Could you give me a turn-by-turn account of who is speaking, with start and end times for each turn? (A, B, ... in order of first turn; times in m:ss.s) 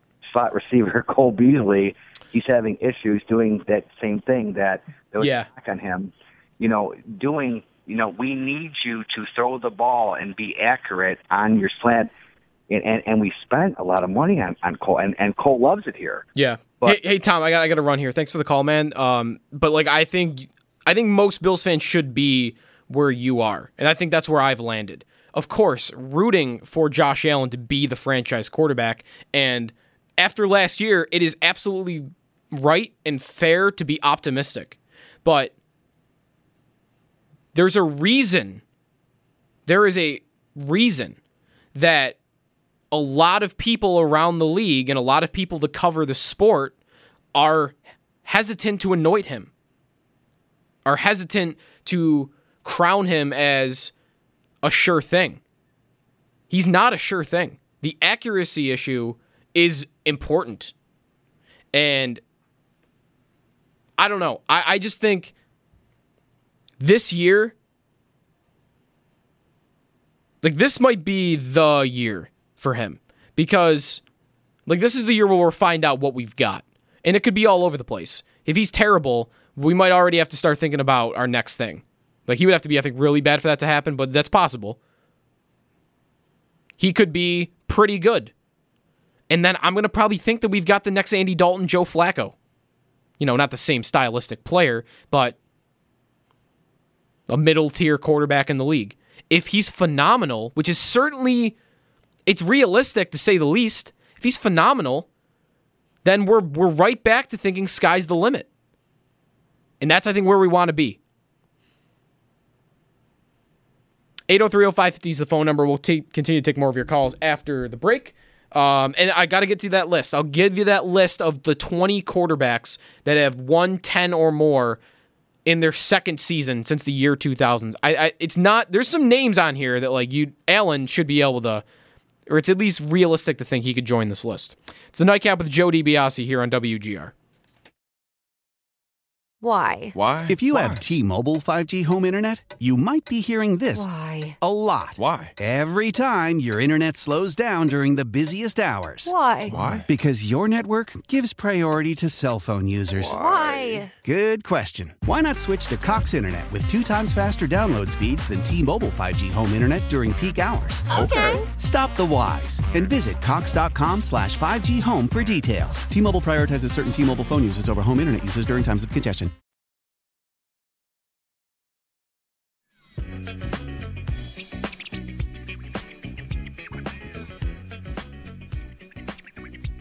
0:00.2-0:12.1 A
0:05.2-0:05.5 B
0:12.7-0:16.3 A
0:16.4-0:35.5 B
0:37.5-0:38.6 B
0:39.6-0:41.2 B
0:41.7-0:42.2 B
0:42.9-0:46.7 B
0:47.3-0:49.5 B
0:50.8-0:53.9 B
0:54.6-0:55.4 B
0:56.5-1:00.7 B
1:01.7-1:02.2 B
1:04.0-1:05.3 B
1:06.8-1:07.5 B
1:10.4-1:14.0 B
1:14.6-1:24.8 B
1:26.8-1:28.3 B
1:29.3-1:32.3 B
1:33.2-1:35.4 B
1:37.3-1:41.6 B
1:42.2-1:45.1 B
1:46.0-1:48.5 B
1:49.8-1:51.0 B
1:54.3-2:04.8 B
2:05.4-2:11.6 B
2:12.3-2:17.1 B
2:19.4-2:19.9 C
2:19.9-2:20.9 D
2:20.3-2:23.9 E
2:23.7-2:24.4 C
2:24.4-2:29.1 E
2:25.0-2:25.3 D
2:29.0-2:29.6 C
2:29.5-2:29.9 D
2:29.9-2:33.2 E
2:32.9-2:33.8 D
2:33.1-2:33.9 C
2:34.0-2:41.0 E
2:40.9-2:41.4 C
2:40.9-2:41.4 D
2:41.5-2:49.3 E